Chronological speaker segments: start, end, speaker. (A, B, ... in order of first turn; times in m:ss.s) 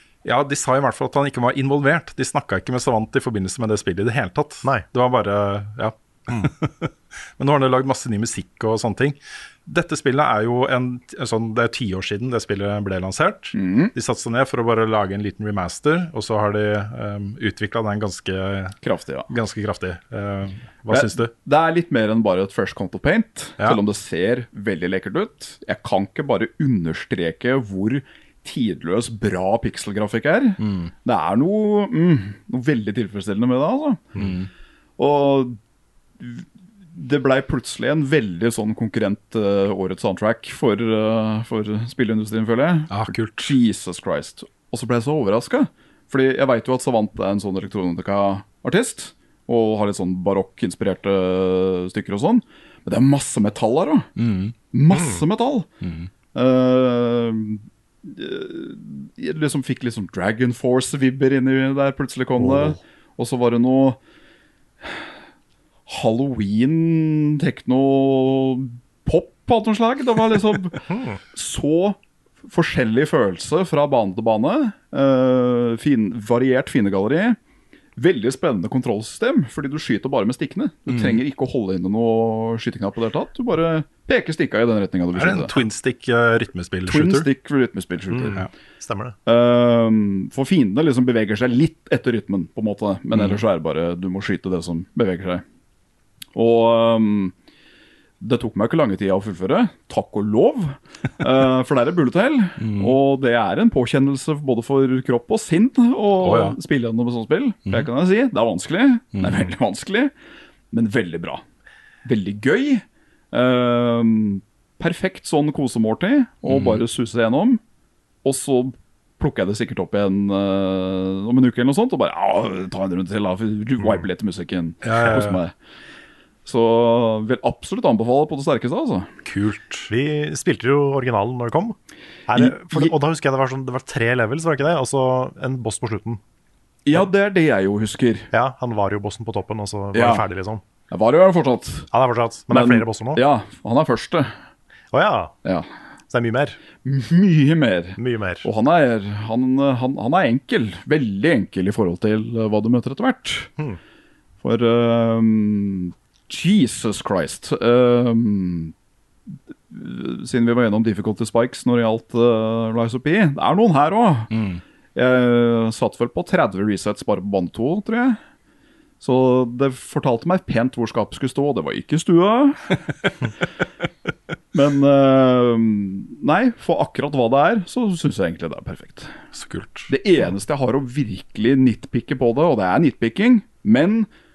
0:00.2-0:18.8 A
0:13.5-0:13.9 B
0:18.8-0:19.3 B
0:19.3-0:21.3 A
0:20.9-0:34.2 B
0:30.6-0:30.9 A
0:34.2-0:34.5 A
0:35.0-0:35.6 B
0:36.2-0:54.1 B
0:42.9-0:43.5 A
0:54.2-0:54.6 A
0:54.7-0:55.7 B
0:54.9-0:55.2 C
0:55.8-0:56.1 A
0:56.3-1:04.0 B
1:04.8-1:05.1 B
1:05.9-1:17.4 B
1:10.9-1:11.2 C
1:18.0-1:25.5 B
1:20.9-1:21.2 A
1:25.1-1:27.3 A
1:26.8-1:28.5 B
1:28.1-1:29.2 C
1:29.2-1:35.4 B
1:33.1-1:33.4 A
1:36.3-1:37.3 B
1:38.2-1:50.1 B
1:42.6-1:43.0 A
1:46.2-1:46.6 A
1:49.1-1:49.5 A
1:50.7-1:51.4 B
1:52.0-1:57.6 B
1:56.4-1:56.8 A
1:58.2-2:05.5 B
2:04.8-2:05.4 A
2:06.4-2:09.1 B
2:09.2-2:09.9 A
2:09.9-2:16.2 C
2:12.4-2:12.9 B
2:16.8-2:18.3 B
2:18.3-2:20.6 C
2:19.9-2:20.2 B
2:20.9-2:21.9 B
2:21.9-2:23.2 C
2:22.5-2:24.3 B
2:24.9-2:25.3 C
2:26.1-2:26.6 C
2:26.8-2:33.5 B
2:28.0-2:28.5 C
2:34.4-2:38.7 B
2:39.3-2:44.3 B
2:44.3-2:44.6 A
2:44.9-2:48.2 B
2:49.0-2:52.8 B
2:54.5-2:59.1 B
2:59.3-2:59.9 A
2:59.9-3:04.1 B